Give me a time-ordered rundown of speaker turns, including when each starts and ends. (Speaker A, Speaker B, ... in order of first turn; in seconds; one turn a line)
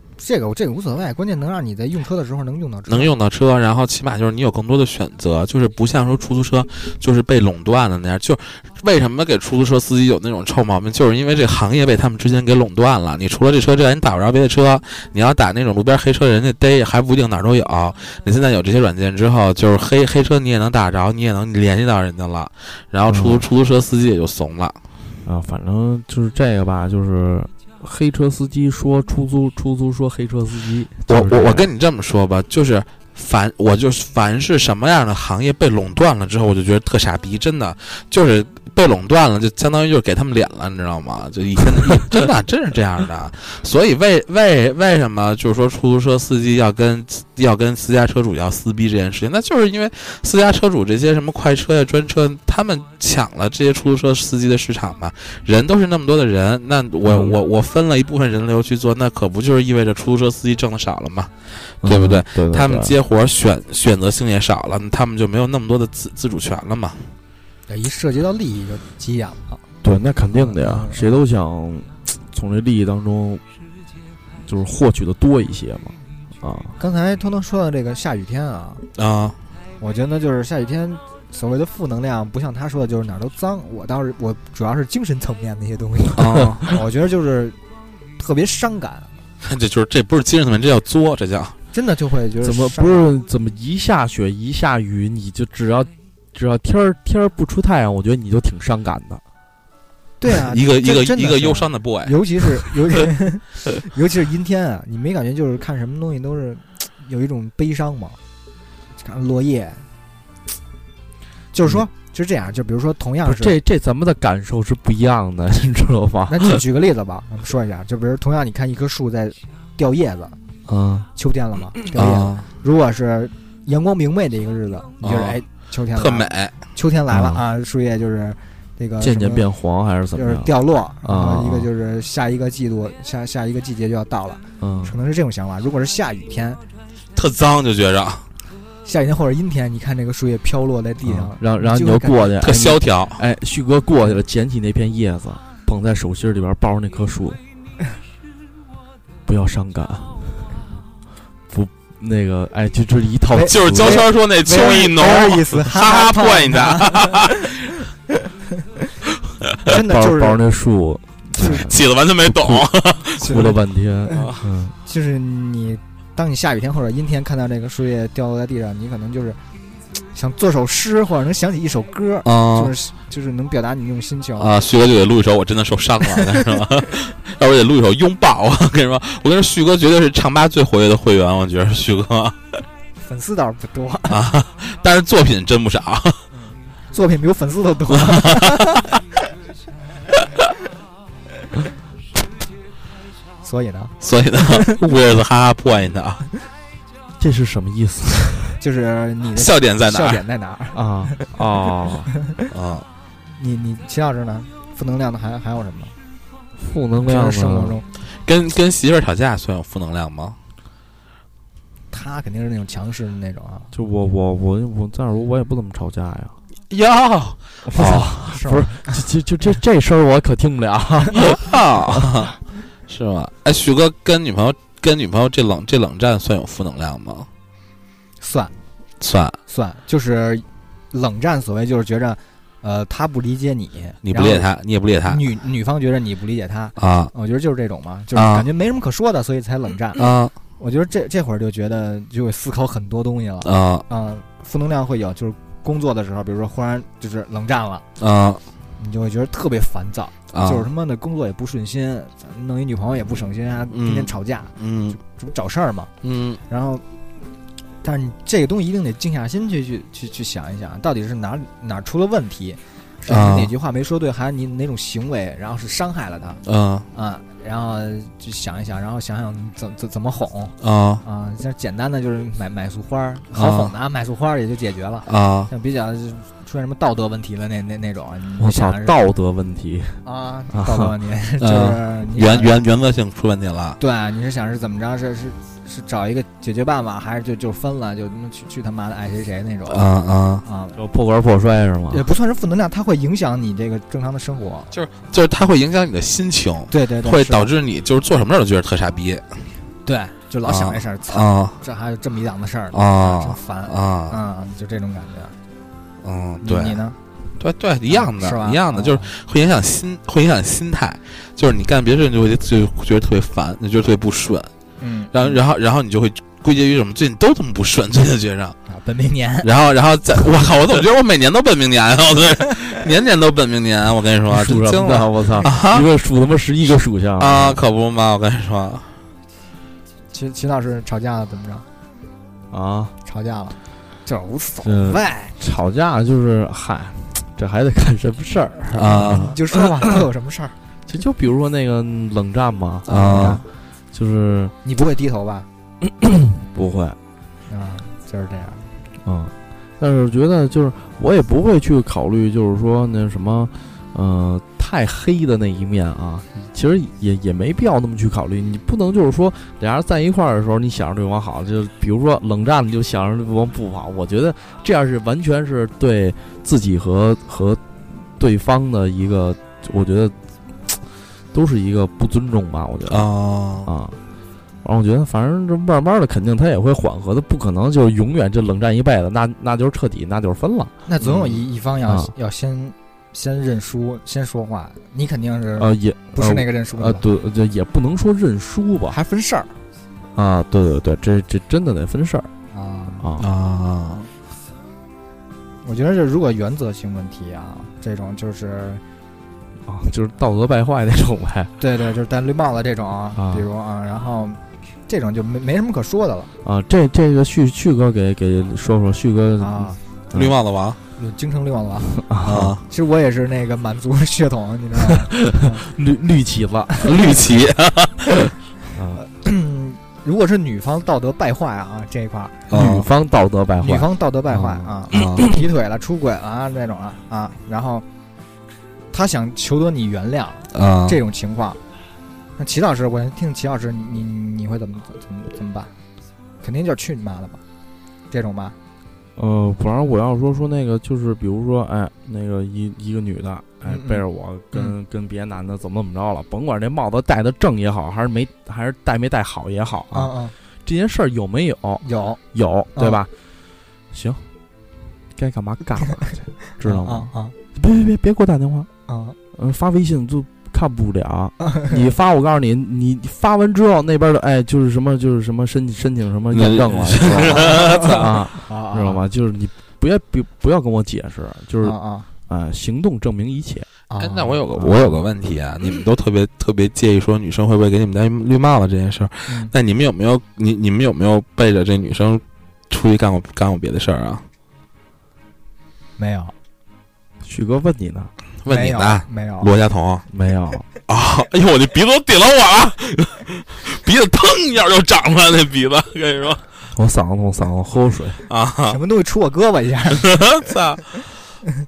Speaker A: 0.2-3.1
Speaker B: 2.9-24.8
Speaker C: 23.1-23.5
Speaker C: 25.2-31.7
Speaker B: 31.1-67.1
Speaker C: 57.0-57.4
Speaker C: 61.8-63.0
Speaker A: 67.7-69.6
Speaker C: 69.8-73.4
Speaker A: 70.3-71.2
Speaker C: 74.4-76.8
Speaker A: 76.8-78.8
Speaker B: 79.0-79.4
Speaker A: 79.8-87.6
Speaker B: 86.2-86.7
Speaker A: 88.2-89.1
Speaker B: 89.4-91.6
Speaker A: 91.7-93.1
Speaker C: 92.4-99.2
Speaker A: 100.2-108.2
Speaker B: 100.5-102.5
Speaker A: 109.0-109.8
Speaker A: 111.5-113.6
Speaker C: 113.2-116.6
Speaker A: 116.3-120.4
Speaker C: 120.7-121.1
Speaker A: 121.1-129.5
Speaker B: 121.9-122.5
Speaker B: 125.0-125.4
Speaker B: 125.9-126.5
Speaker C: 127.1-127.4
Speaker C: 129.0-130.5
Speaker A: 130.1-136.6
Speaker C: 131.0-131.7
Speaker C: 134.6-134.9
Speaker B: 137.2-138.2
Speaker A: 138.8-142.4
Speaker C: 141.0-147.4
Speaker B: 142.4-143.2
Speaker C: 149.2-150.5
Speaker C: 151.5-154.0
Speaker A: 153.3-157.5
Speaker B: 153.5-157.5
Speaker A: 159.7-160.4
Speaker C: 159.7-164.7
Speaker A: 161.4-161.7
Speaker B: 161.4-163.5
Speaker A: 163.2-163.5
Speaker B: 164.1-164.4
Speaker A: 164.8-169.4
Speaker A: 170.1-174.5
Speaker B: 172.2-172.7
Speaker B: 174.4-182.6
Speaker A: 183.0-184.2
Speaker B: 184.1-186.2
Speaker A: 186.9-188.9
Speaker B: 188.0-188.7
Speaker A: 193.4-194.8
Speaker B: 194.0-196.2
Speaker C: 197.2-198.6
Speaker A: 198.6-201.3
Speaker B: 199.3-200.2
Speaker C: 200.7-202.1
Speaker B: 202.5-202.8
Speaker A: 203.4-205.9
Speaker C: 206.6-207.8
Speaker A: 207.0-207.9
Speaker B: 208.2-210.4
Speaker A: 211.9-213.7
Speaker C: 213.7-216.3
Speaker B: 216.7-218.1
Speaker C: 217.7-222.2
Speaker A: 217.8-219.0
Speaker B: 221.2-222.3
Speaker B: 222.9-227.3
Speaker A: 228.2-228.5
Speaker B: 229.0-229.4
Speaker A: 229.5-234.5
Speaker B: 234.0-235.2
Speaker A: 235.1-240.1
Speaker B: 236.8-237.1
Speaker B: 238.1-238.4
Speaker B: 239.9-240.3
Speaker A: 240.6-247.8
Speaker B: 243.4-243.8
Speaker B: 248.0-248.4
Speaker A: 248.8-255.9
Speaker B: 250.3-250.7
Speaker B: 253.7-255.0
Speaker B: 256.0-256.4
Speaker A: 256.5-256.8
Speaker A: 257.8-266.4
Speaker B: 263.1-263.5
Speaker B: 266.4-266.9
Speaker A: 266.9-279.0
Speaker B: 270.6-271.0
Speaker B: 273.3-273.7
Speaker B: 275.1-275.5
Speaker C: 278.4-280.0
Speaker A: 280.0-282.6
Speaker C: 280.5-280.9
Speaker B: 281.4-283.8
Speaker A: 283.8-289.9
Speaker B: 289.7-290.4
Speaker A: 290.4-290.8
Speaker C: 290.8-292.0
Speaker A: 291.9-294.7
Speaker B: 294.7-299.3
Speaker A: 296.7-297.5
Speaker A: 299.8-305.3
Speaker B: 300.4-301.6
Speaker B: 302.7-304.2
Speaker B: 306.0-306.8
Speaker A: 306.4-306.9
Speaker B: 307.4-314.5
Speaker A: 307.9-309.1
Speaker A: 314.8-315.4
Speaker B: 315.1-318.6
Speaker A: 318.7-319.5
Speaker B: 319.4-325.9
Speaker C: 324.3-327.6
Speaker B: 327.2-328.9
Speaker A: 330.1-331.6
Speaker C: 332.5-332.9
Speaker A: 333.0-335.3
Speaker C: 334.6-339.8
Speaker B: 338.7-339.3
Speaker A: 339.1-340.5
Speaker C: 340.9-344.5
Speaker A: 342.9-343.4
Speaker B: 342.9-343.4
Speaker A: 344.6-345.5
Speaker C: 345.8-347.0
Speaker A: 347.5-348.6
Speaker C: 349.0-370.1
Speaker C: 371.3-373.1
Speaker B: 372.9-373.7
Speaker C: 373.6-374.0
Speaker C: 374.6-380.7
Speaker A: 380.9-387.0
Speaker C: 381.9-382.1
Speaker C: 385.6-389.0
Speaker A: 388.9-389.5
Speaker C: 390.1-392.3
Speaker A: 392.5-393.1
Speaker C: 393.0-393.3
Speaker B: 393.2-394.1
Speaker A: 395.6-398.8
Speaker C: 399.6-401.5
Speaker A: 401.6-406.3
Speaker C: 403.1-403.5
Speaker C: 406.4-410.4
Speaker A: 409.4-409.8
Speaker B: 410.1-410.8
Speaker A: 411.0-411.9
Speaker C: 412.0-412.6
Speaker B: 412.2-412.6
Speaker A: 412.6-415.7
Speaker C: 415.0-417.2
Speaker B: 416.8-418.3
Speaker C: 418.7-419.0
Speaker A: 419.0-422.5
Speaker B: 422.5-422.9
Speaker C: 422.5-425.3
Speaker A: 423.6-427.8
Speaker B: 424.9-425.3
Speaker A: 428.9-431.6
Speaker B: 430.5-431.0
Speaker A: 432.4-435.7
Speaker A: 436.4-437.4
Speaker A: 438.1-438.5
Speaker C: 439.1-450.1
Speaker A: 443.6-444.7
Speaker A: 449.9-450.3
Speaker C: 450.6-453.1
Speaker A: 451.8-452.2
Speaker A: 452.7-453.0
Speaker C: 453.9-454.2
Speaker C: 455.1-458.7
Speaker A: 456.6-457.3
Speaker A: 458.9-459.1
Speaker C: 459.3-471.8
Speaker B: 466.3-468.1
Speaker A: 467.4-467.9
Speaker A: 468.4-469.0
Speaker A: 471.6-472.1
Speaker C: 472.3-473.7
Speaker A: 473.9-474.4
Speaker B: 474.0-484.2
Speaker C: 474.5-475.0
Speaker A: 479.3-479.5
Speaker A: 486.0-486.3
Speaker C: 487.2-488.1
Speaker B: 488.4-490.1
Speaker A: 488.5-489.5
Speaker C: 490.1-490.6
Speaker B: 490.9-496.4
Speaker C: 496.7-498.2
Speaker B: 498.3-498.8
Speaker A: 498.7-500.5
Speaker B: 499.9-500.8